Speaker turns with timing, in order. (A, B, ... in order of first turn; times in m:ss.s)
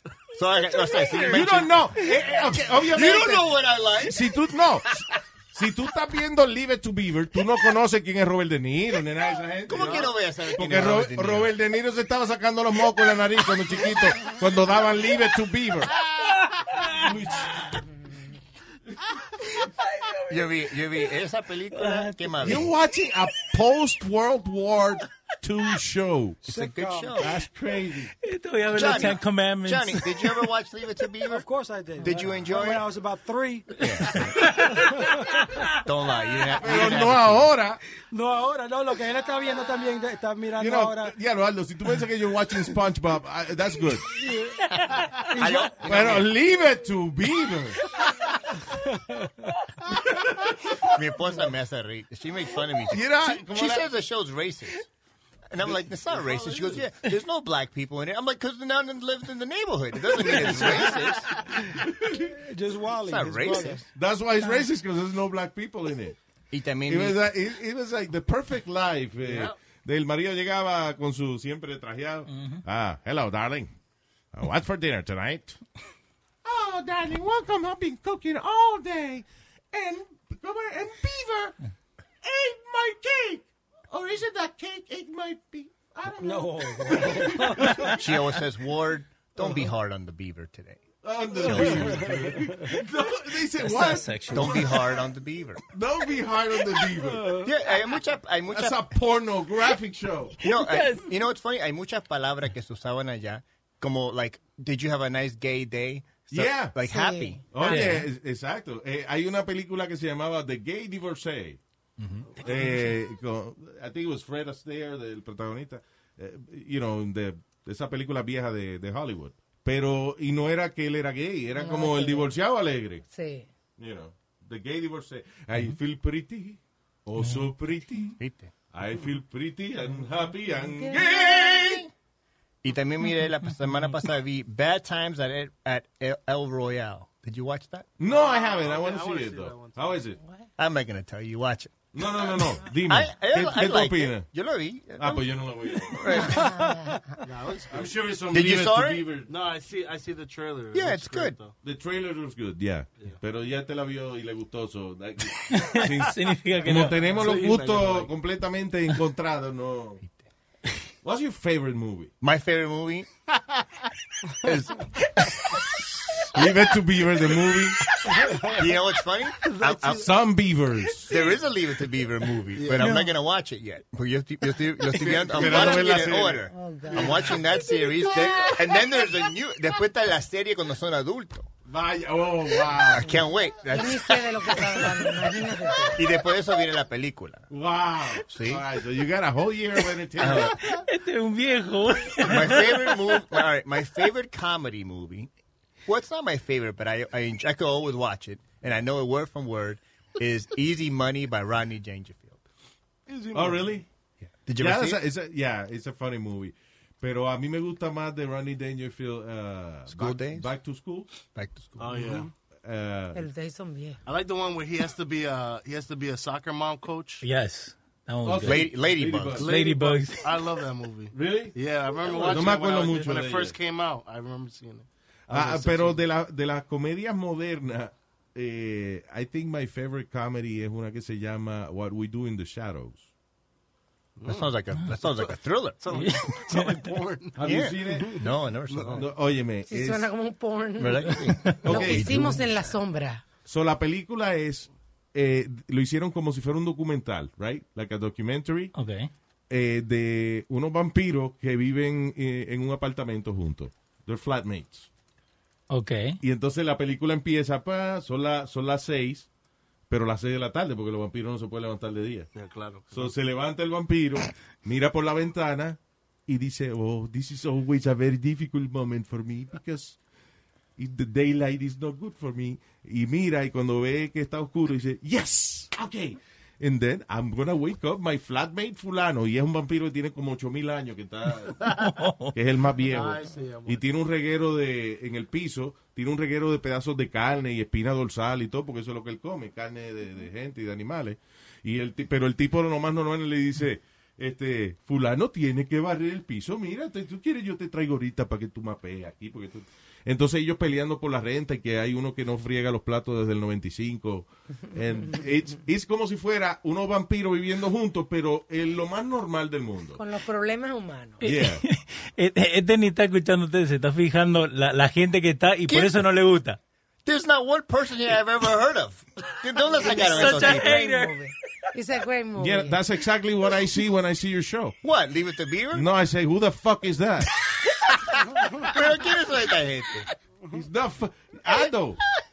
0:00.3-0:04.2 A
0:01.2-0:16.0 B
0:09.7-0:11.5 A
0:09.7-0:10.1 C
0:16.8-0:17.8 B
0:19.8-0:20.6 D
0:20.3-0:22.7 A
0:21.7-0:22.6 D
0:22.4-0:26.4 B
0:26.4-0:27.2 E
0:26.4-0:27.4 A
0:27.2-0:28.1 B
0:28.2-0:30.5 D
0:28.7-0:31.4 A
0:31.2-0:35.4 E
0:32.0-0:32.9 A
0:33.8-0:34.7 A
0:34.4-0:35.6 D
0:35.8-0:37.5 A
0:36.6-0:37.8 B
0:38.1-0:41.1 E
0:40.6-0:44.1 B
0:44.2-0:44.5 E
0:45.3-0:46.2 E
0:45.3-0:46.3 A
0:45.8-0:47.8 B
0:48.6-0:49.5 E
0:50.0-0:50.7 B
0:50.8-0:54.9 A
0:52.9-0:53.9 B
0:55.5-1:01.3 A
0:56.1-0:56.8 C
1:00.6-1:01.2 C
1:01.8-1:02.3 B
1:02.3-1:03.9 E
1:03.0-1:03.8 A
1:03.9-1:06.2 B
1:06.5-1:07.2 A
1:06.8-1:13.7 B
1:09.2-1:09.6 C
1:12.3-1:12.6 D
1:14.3-1:15.6 B
1:16.4-1:21.6 B
1:22.2-1:28.3 B
1:26.2-1:27.9 E
1:27.8-1:30.8 A
1:31.0-1:34.7 B
1:31.4-1:32.4 A
1:31.8-1:32.6 E
1:33.6-1:35.0 D
1:34.3-1:35.6 A
1:35.7-1:37.5 B
1:37.0-1:37.5 E
1:37.4-1:38.8 A
1:38.5-1:40.4 B
1:40.4-1:41.1 D
1:40.4-1:47.4 A
1:46.3-1:46.7 B
1:46.8-1:47.9 F
1:47.5-1:51.6 B
1:47.6-1:48.0 D
1:52.0-1:52.3 A
1:52.4-2:03.0 B
2:01.6-2:02.3 F
2:03.1-2:03.5 F
2:03.8-2:08.2 B
2:07.2-2:07.5 D
2:08.2-2:08.5 A
2:08.7-2:11.9 B
2:10.7-2:11.0 F
2:11.0-2:11.6 A
2:12.6-2:17.9 A
2:18.0-2:20.2 B
2:18.0-2:20.1 C
2:20.2-2:20.4 F
2:20.6-2:21.8 A
2:21.9-2:24.3 B
2:22.7-2:26.6 A
2:25.0-2:26.3 B
2:26.1-2:27.1 F
2:26.4-2:27.2 E
2:27.2-2:28.0 C
2:27.7-2:29.3 B
2:28.3-2:29.1 A
2:29.2-2:31.5 C
2:30.7-2:31.4 A
2:31.6-2:40.0 B
2:35.5-2:37.0 D
2:36.7-2:38.1 C
2:41.0-2:42.1 B
2:42.2-2:43.1 A
2:44.4-2:44.8 A
2:46.3-2:47.8 B
2:48.2-2:48.5 E
2:48.4-2:50.1 A
2:49.4-2:50.0 C
2:49.9-2:51.2 B
2:51.1-3:01.5 A
2:52.5-2:53.0 C
2:52.7-2:53.1 D
2:54.9-2:56.5 B
2:56.5-2:57.4 F
3:01.7-3:03.0 B
3:02.7-3:05.1 A
3:03.0-3:06.0 F
3:05.9-3:07.4 A
3:07.5-3:10.6 B
3:08.3-3:08.6 A
3:10.2-3:10.6 A
3:10.6-3:13.3 D
3:12.2-3:15.3 A
3:15.8-3:22.4 A
3:23.1-3:23.7 C
3:23.3-3:23.8 B
3:24.4-3:25.0 A
3:24.6-3:31.1 B
3:29.9-3:30.5 A
3:31.3-3:32.3 A
3:31.8-3:32.3 C
3:32.6-3:33.2 B
3:33.1-3:34.0 F
3:34.0-3:37.2 C
3:37.2-3:38.8 D
3:38.2-3:39.6 B
3:38.4-3:39.4 A
3:39.3-3:46.0 C
3:39.4-3:40.2 D
3:41.1-3:43.6 B
3:45.3-3:53.1 B
3:54.2-3:57.7 C
3:54.2-3:56.1 A
3:55.9-3:57.0 D
3:57.4-3:58.3 B
3:57.4-3:59.0 A
3:58.7-3:59.1 C
3:58.8-4:00.1 B
3:59.6-4:03.2 F
4:00.8-4:02.6 A
4:01.6-4:02.4 B
4:03.4-4:08.7 B
4:08.7-4:09.1 D
4:09.5-4:14.9 B
4:15.7-4:16.2 D
4:16.2-4:19.3 B
4:19.9-4:22.3 B
4:22.3-4:23.1 C
4:22.9-4:30.0 B
4:30.8-5:10.0 B
4:41.8-4:42.3 D
4:42.8-4:43.8 C
5:10.0-5:11.3 F
5:11.2-5:11.6 B
5:11.2-5:16.6 D
5:15.7-5:16.0 A
5:17.0-5:20.6 A
5:19.7-5:22.8 F
5:19.8-5:21.1 D
5:22.4-5:24.7 B
5:24.8-5:25.9 A
5:25.7-5:27.3 B
5:28.1-5:30.1 A
5:30.5-5:32.0 B